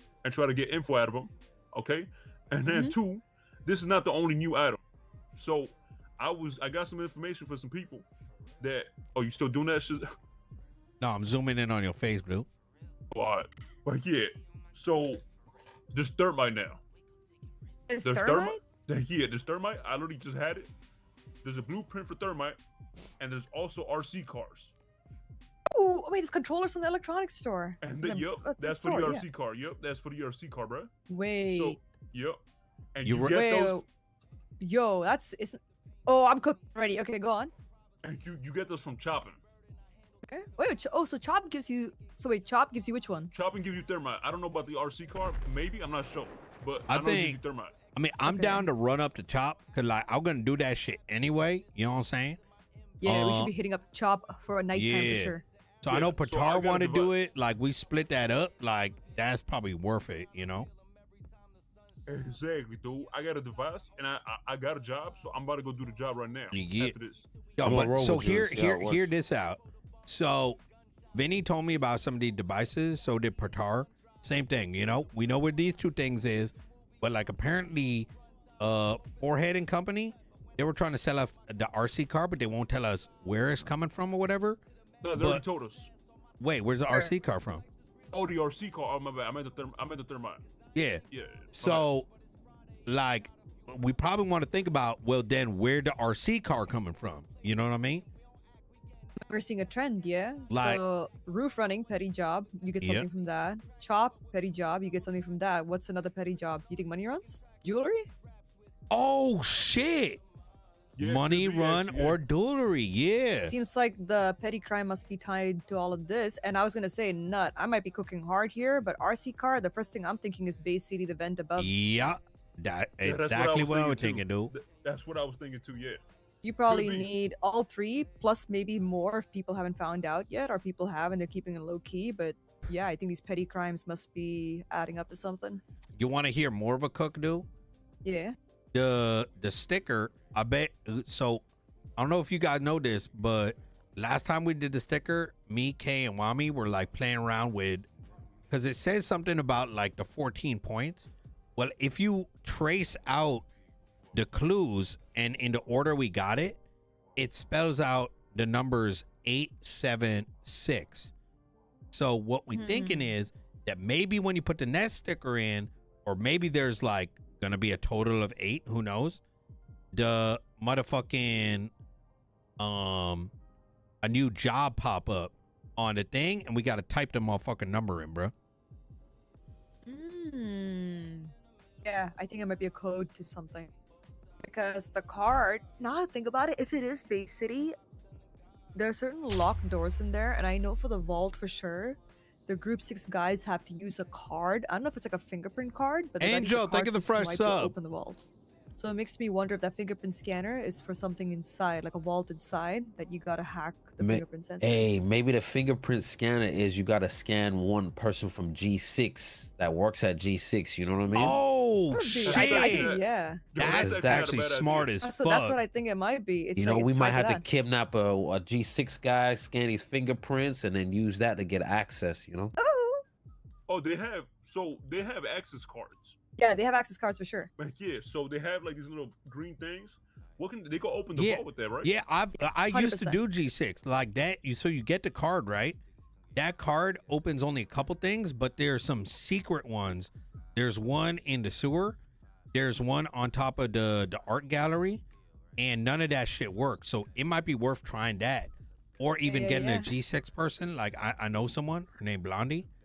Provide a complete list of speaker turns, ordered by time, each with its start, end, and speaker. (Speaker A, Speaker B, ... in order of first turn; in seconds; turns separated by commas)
Speaker A: 0.2-4.8, Speaker B: 2.7-2.9, Speaker A: 5.4-8.1, Speaker A: 8.6-10.0, Speaker C: 11.0-12.5, Speaker A: 13.1-15.2, Speaker A: 15.9-16.8, Speaker B: 17.9-18.6, Speaker A: 18.0-20.7, Speaker A: 21.4-22.6, Speaker A: 23.2-24.7, Speaker B: 25.7-29.2, Speaker A: 27.8-30.9, Speaker B: 31.1-31.8, Speaker A: 31.5-32.4, Speaker A: 33.0-33.8, Speaker C: 33.0-33.4, Speaker B: 33.3-33.9, Speaker B: 34.6-37.5, Speaker A: 38.0-39.4, Speaker B: 40.3-43.3, Speaker A: 43.3-47.7, Speaker C: 46.9-47.4, Speaker C: 48.0-52.4, Speaker B: 48.2-48.7, Speaker B: 53.0-55.4, Speaker C: 53.0-53.5, Speaker C: 54.7-60.7, Speaker A: 55.9-57.1, Speaker A: 62.1-67.3, Speaker C: 66.5-66.9, Speaker C: 67.6-70.6, Speaker D: 67.6-69.1, Speaker C: 71.1-84.6, Speaker A: 85.0-85.9, Speaker C: 85.2-85.4, Speaker C: 86.4-87.7, Speaker A: 88.1-90.4, Speaker C: 90.8-92.1, Speaker A: 91.1-91.9, Speaker C: 92.9-98.1, Speaker B: 99.3-108.1, Speaker C: 100.5-100.8, Speaker C: 102.8-103.1, Speaker C: 108.9-110.2, Speaker A: 111.0-112.2, Speaker C: 111.0-113.5, Speaker B: 113.4-121.8, Speaker C: 121.6-124.5, Speaker A: 123.0-126.0, Speaker B: 126.4-135.6, Speaker A: 126.7-127.1, Speaker C: 136.0-137.5, Speaker B: 138.0-138.3, Speaker C: 138.7-141.4, Speaker C: 142.0-147.9, Speaker C: 148.5-153.5, Speaker C: 154.1-156.6, Speaker C: 157.2-161.1, Speaker C: 161.9-169.2, Speaker B: 162.5-163.1, Speaker C: 169.9-171.7, Speaker C: 172.6-173.3, Speaker C: 174.0-178.3, Speaker B: 179.9-181.3, Speaker B: 181.8-183.7, Speaker B: 184.4-187.7, Speaker B: 188.8-204.9, Speaker C: 196.2-197.7, Speaker D: 204.0-211.4, Speaker C: 211.1-213.0, Speaker B: 211.9-213.4, Speaker A: 212.2-214.9, Speaker C: 213.6-215.6, Speaker D: 213.7-214.3, Speaker B: 215.0-217.4, Speaker D: 216.6-222.5, Speaker B: 222.6-223.0, Speaker A: 223.7-226.2, Speaker B: 226.4-227.5, Speaker A: 227.6-231.9, Speaker C: 231.2-235.8, Speaker B: 232.4-233.2, Speaker C: 236.3-242.0, Speaker C: 242.5-245.0, Speaker C: 245.6-252.7, Speaker B: 249.2-249.9